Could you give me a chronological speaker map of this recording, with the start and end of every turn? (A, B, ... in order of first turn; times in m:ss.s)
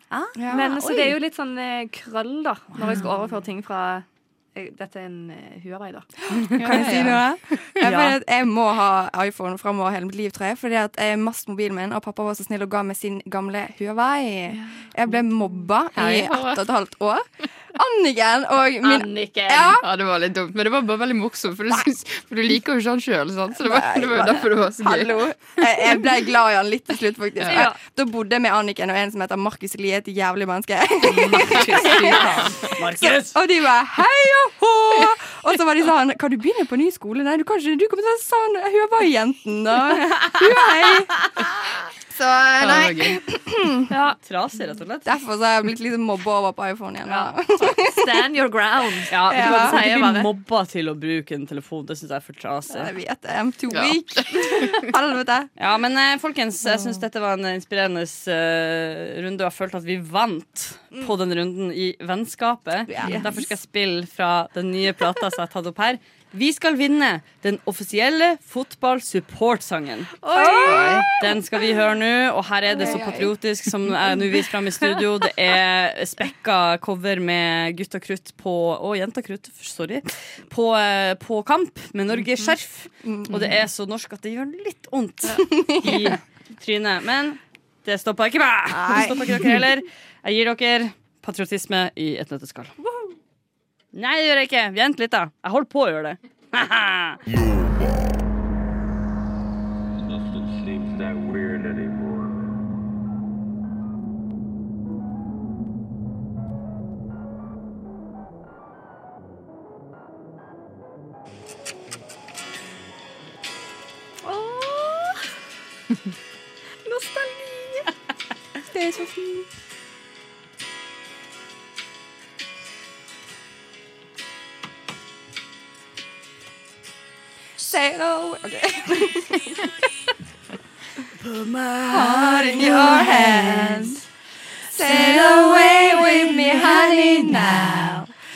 0:00.1-0:01.2 A
0:00.4-0:00.6 B
0:00.5-0:07.2 C
0:06.4-0:19.8 B
0:06.6-0:07.2 D
0:06.8-0:07.0 A
0:07.8-0:08.2 A
0:16.0-0:16.6 D
0:18.8-0:19.8 C
0:19.6-0:26.0 D
0:23.6-0:44.0 B
0:27.4-0:27.7 D
0:27.4-0:27.8 C
0:31.1-0:32.6 C
0:31.2-0:33.4 A
0:40.0-0:40.5 A
0:42.6-0:43.2 D
0:43.9-0:44.2 C
0:44.2-0:45.2 A
0:45.1-0:48.1 B
0:47.1-0:50.3 C
0:49.1-0:52.9 A
0:49.3-0:49.8 B
0:52.7-0:55.5 B
0:53.7-0:54.9 D
0:55.6-1:10.1 A
1:02.9-1:03.4 B
1:10.2-1:11.3 C
1:10.3-1:11.1 B
1:10.5-1:11.1 D
1:11.2-1:32.7 A
1:12.8-1:13.3 B
1:23.0-1:23.5 B
1:25.4-1:26.2 B
1:28.7-1:29.6 B
1:33.9-1:37.2 A
1:37.4-1:37.7 E
1:40.0-1:42.6 E
1:54.2-1:55.3 C
1:56.8-1:58.0 C
1:58.7-1:59.5 B
2:07.6-2:09.7 B
2:11.2-2:14.0 A
2:11.9-2:14.0 B
2:14.7-2:18.1 B
2:14.8-2:17.7 A